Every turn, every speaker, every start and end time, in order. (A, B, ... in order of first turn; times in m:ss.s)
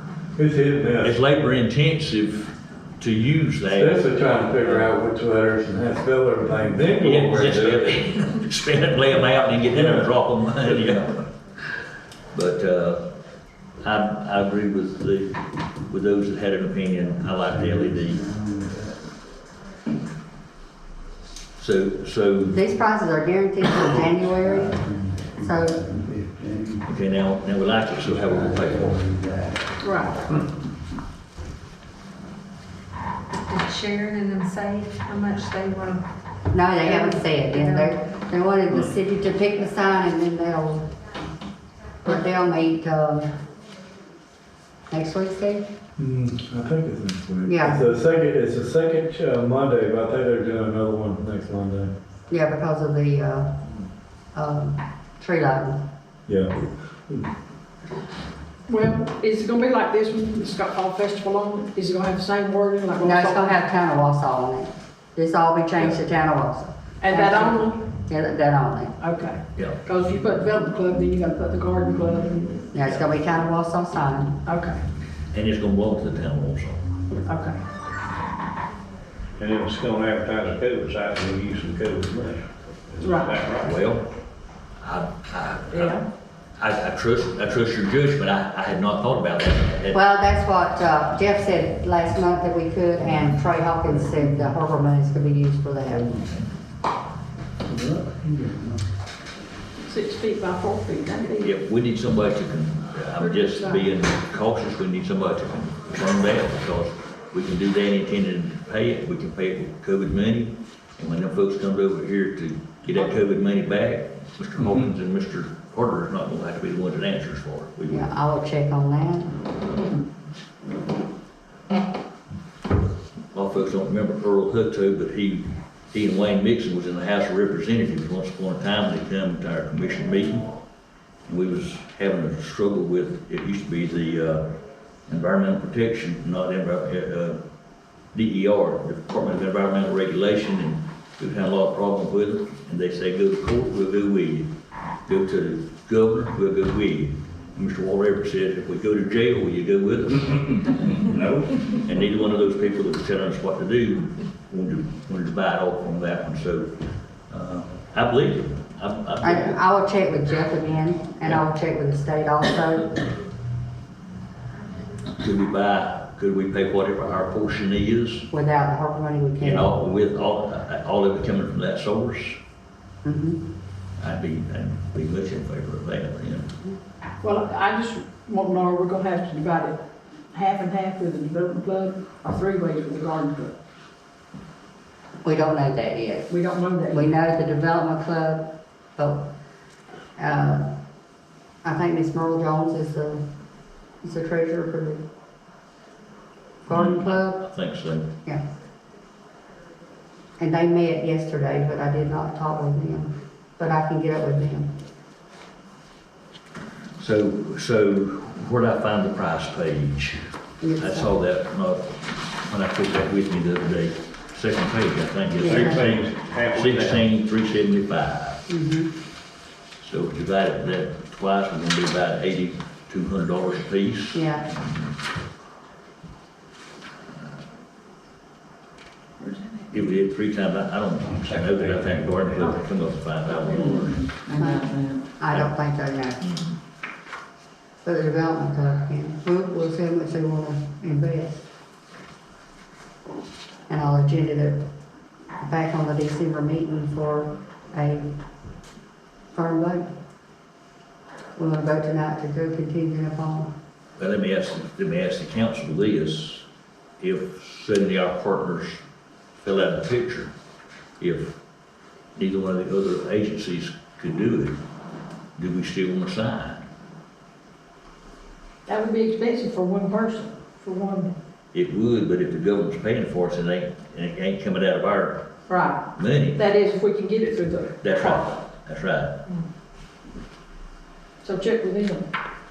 0:00.4-0:01.1 A
0:01.0-0:04.0 B
0:03.8-0:07.6 A
0:07.0-0:11.3 B
0:07.1-0:07.9 C
0:12.3-0:13.1 B
0:13.8-0:18.3 B
0:18.3-0:18.8 A
0:21.6-0:22.6 B
0:22.5-0:24.8 D
0:25.4-0:25.8 D
0:25.8-0:26.8 A
0:26.8-0:29.1 B
0:29.1-0:29.5 A
0:29.8-0:30.3 E
0:33.4-0:36.0 F
0:36.5-0:40.9 D
0:36.8-0:38.0 F
0:42.0-0:43.3 D
0:44.9-0:45.6 D
0:46.0-0:51.9 A
0:47.5-0:47.8 D
0:52.3-0:53.5 D
0:54.3-0:55.8 D
0:56.3-0:56.5 A
0:58.7-1:03.6 E
1:03.0-1:08.9 D
1:07.0-1:07.8 E
1:09.0-1:12.7 E
1:12.7-1:14.4 D
1:12.8-1:13.1 B
1:14.4-1:14.8 E
1:15.3-1:16.8 B
1:17.2-1:17.6 E
1:19.4-1:23.7 C
1:23.0-1:23.4 E
1:23.6-1:24.1 B
1:24.8-1:26.0 B
1:25.7-1:26.0 E
1:26.6-1:30.0 B
1:29.9-1:36.1 D
1:37.7-1:38.7 A
1:39.8-1:41.5 E
1:41.4-1:58.1 B
1:43.2-1:43.8 E
1:57.9-1:59.4 D
2:03.3-2:10.5 B
2:11.3-2:14.5 B
2:15.1-2:17.4 B
2:18.1-2:24.5 B
2:25.0-2:36.7 B
2:37.3-2:39.6 B
2:39.2-2:42.9 D
2:45.2-2:48.3 B
2:48.3-2:49.7 D
2:49.4-2:52.4 B
2:53.0-2:53.4 D
2:54.0-2:56.5 B
2:57.2-2:59.8 E
3:00.3-3:03.6 E
3:05.2-3:06.3 D
3:06.3-3:07.2 E
3:06.9-3:09.2 D
3:10.2-3:10.6 D
3:11.6-3:13.2 D
3:14.0-3:15.0 D
3:16.6-3:17.4 D
3:16.7-3:18.1 B
3:20.4-3:24.7 D
3:27.0-3:30.3 B
3:30.6-3:31.1 D
3:30.8-3:38.4 B
3:35.4-3:37.0 C
3:38.5-3:38.9 D
3:39.8-3:44.9 B
3:44.1-3:44.4 D
3:49.7-3:54.1 B
3:53.4-3:54.9 E
3:54.4-3:54.7 D
3:54.5-3:54.8 F
3:55.2-3:56.2 D
3:56.2-3:56.5 B
3:57.8-4:01.4 D
4:03.7-4:04.6 D
4:05.4-4:08.1 D
4:09.3-4:09.9 D
4:11.4-4:13.5 D
4:14.0-4:16.4 B
4:17.0-4:18.8 B
4:19.4-4:20.3 B
4:21.0-4:21.4 B
4:22.2-4:24.6 B
4:25.4-4:26.6 B
4:28.7-4:31.1 E
4:31.5-4:35.3 B
4:35.5-4:37.9 E
4:35.9-4:36.4 B
4:37.8-4:39.2 B
4:41.2-4:42.1 E